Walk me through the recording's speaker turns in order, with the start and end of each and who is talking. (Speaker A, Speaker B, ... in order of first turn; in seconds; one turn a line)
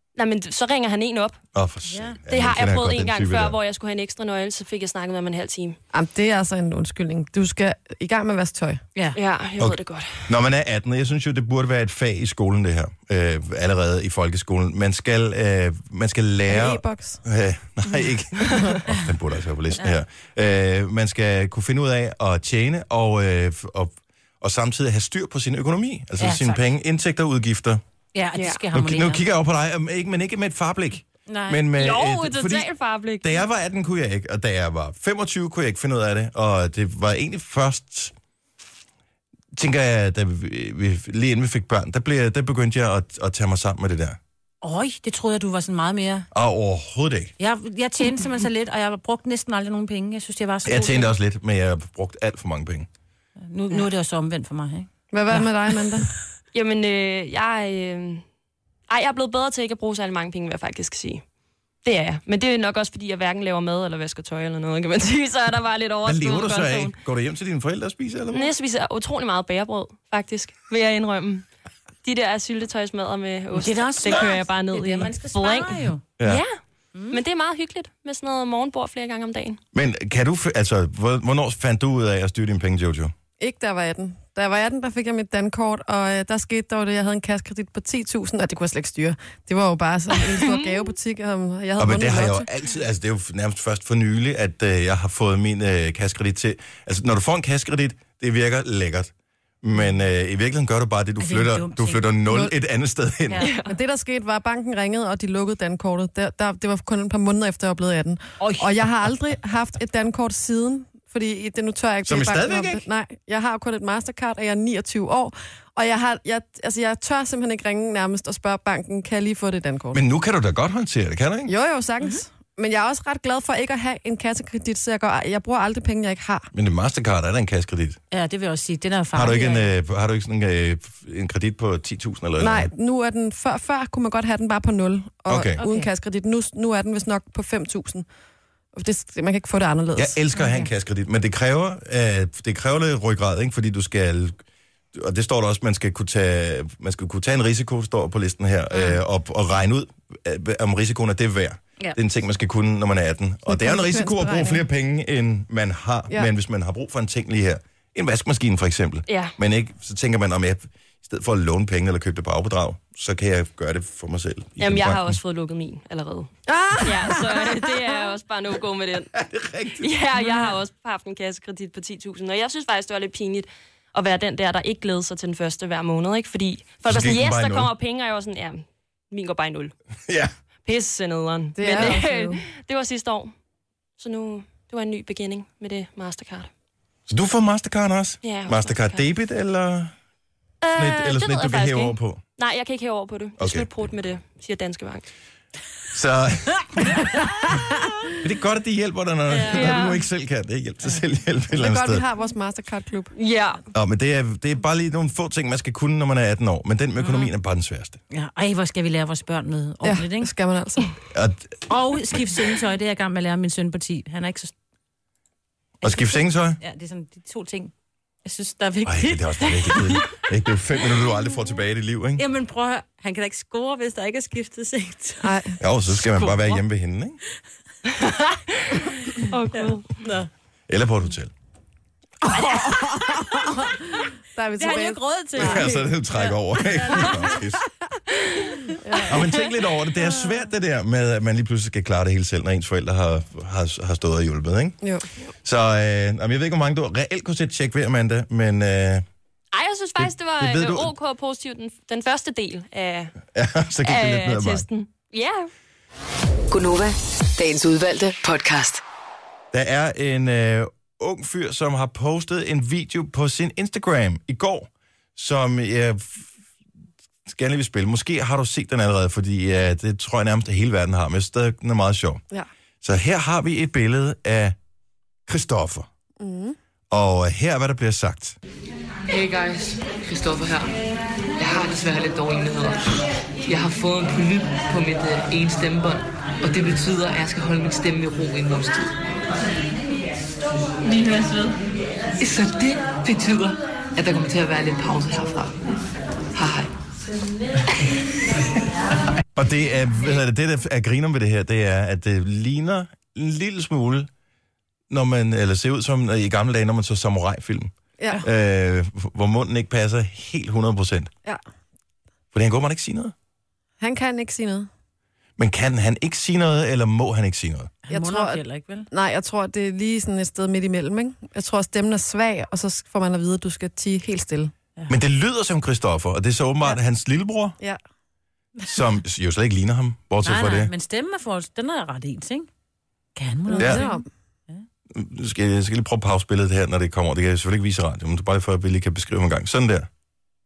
Speaker A: 0.2-1.4
Speaker B: 1.5-3.6
Speaker C: 1.9-2.2
Speaker A: 2.3-5.8
Speaker D: 5.9-8.8
Speaker A: 9.2-10.3
Speaker B: 9.6-27.8
Speaker D: 16.5-17.2
Speaker C: 26.2-26.6
Speaker C: 28.1-29.2
Speaker A: 28.4-28.6
Speaker B: 28.7-32.7
Speaker C: 31.3-31.6
Speaker A: 31.8-33.4
Speaker B: 33.2-38.1
Speaker B: 39.6-44.2
Speaker C: 44.6-46.3
Speaker B: 46.3-47.3
Speaker C: 47.4-51.1
Speaker B: 50.6-52.9
Speaker C: 53.5-55.5
Speaker D: 55.1-56.1
Speaker A: 56.5-58.2
Speaker A: 58.9-61.2
Speaker A: 61.8-67.0
Speaker B: 66.0-68.5
Speaker A: 68.3-71.5
Speaker A: 72.0-76.6
Speaker C: 73.5-76.0
Speaker C: 76.9-77.2
Speaker A: 77.1-79.6
Speaker B: 79.7-83.1
Speaker D: 83.4-92.5
Speaker A: 90.4-90.9
Speaker B: 91.8-99.1
Speaker B: 99.6-103.5
Speaker C: 101.2-102.2
Speaker D: 102.3-102.5
Speaker A: 103.4-103.7
Speaker D: 103.6-120.0
Speaker C: 108.4-108.8
Speaker B: 112.1-112.8
Speaker B: 119.9-121.5
Speaker D: 121.5-126.5
Speaker B: 126.5-128.0
Speaker C: 128.1-129.7
Speaker B: 129.1-132.7
Speaker D: 132.4-138.1
Speaker B: 135.3-135.6
Speaker C: 135.6-135.9
Speaker D: 138.7-140.2
Speaker B: 140.0-144.4
Speaker C: 140.3-140.7
Speaker B: 144.9-165.1
Speaker D: 153.5-154.6
Speaker A: 159.1-159.4
Speaker A: 164.6-166.3
Speaker D: 166.5-167.8
Speaker A: 166.8-169.2
Speaker B: 169.1-169.9
Speaker A: 169.8-179.7
Speaker B: 176.9-177.7
Speaker A: 180.6-183.3
Speaker D: 181.6-182.4
Speaker A: 184.0-186.5
Speaker B: 187.1-189.9
Speaker A: 188.2-189.0
Speaker A: 190.6-195.1
Speaker B: 190.8-192.2
Speaker B: 193.4-193.7
Speaker B: 195.9-197.0
Speaker B: 198.2-202.0
Speaker C: 199.3-199.8
Speaker A: 199.5-200.0
Speaker D: 201.5-203.1
Speaker A: 203.1-203.6
Speaker B: 203.7-208.0
Speaker C: 207.0-207.3
Speaker C: 208.1-210.3
Speaker D: 209.8-210.9
Speaker B: 211.1-211.6
Speaker C: 211.7-214.5
Speaker B: 215.8-216.6
Speaker C: 215.8-217.7
Speaker C: 218.2-220.1
Speaker B: 218.8-222.2
Speaker C: 222.2-225.3
Speaker D: 225.2-225.6
Speaker B: 225.6-227.2
Speaker C: 225.9-226.6
Speaker A: 228.6-230.0
Speaker C: 229.5-230.3
Speaker B: 230.7-231.3
Speaker D: 232.2-235.9
Speaker C: 232.3-233.8
Speaker C: 234.6-237.4
Speaker B: 235.4-237.6
Speaker A: 238.2-238.5
Speaker C: 238.6-239.1
Speaker D: 238.8-239.3
Speaker B: 239.1-244.8
Speaker C: 240.0-240.3
Speaker B: 245.4-249.0
Speaker A: 249.5-253.2
Speaker B: 250.0-250.9
Speaker B: 253.3-254.7
Speaker A: 253.8-255.5
Speaker E: 256.5-258.8
Speaker B: 259.5-266.3
Speaker B: 267.3-272.2
Speaker B: 272.8-274.6
Speaker B: 275.3-275.9
Speaker D: 276.2-276.6
Speaker B: 276.9-278.4
Speaker F: 279.1-280.7
Speaker F: 281.4-288.9
Speaker F: 290.9-291.5
Speaker F: 292.2-295.6
Speaker F: 296.3-296.7
Speaker B: 299.4-304.1
Speaker B: 304.9-311.1
Speaker D: 308.0-308.2
Speaker B: 312.3-313.1
Speaker D: 313.8-314.7
Speaker B: 315.4-317.7
Speaker C: 317.9-318.9
Speaker D: 317.9-324.5
Speaker B: 324.9-327.6
Speaker B: 328.6-330.7
Speaker C: 330.2-332.5
Speaker C: 333.1-334.6
Speaker D: 333.5-334.1
Speaker B: 333.6-333.8
Speaker B: 334.9-339.9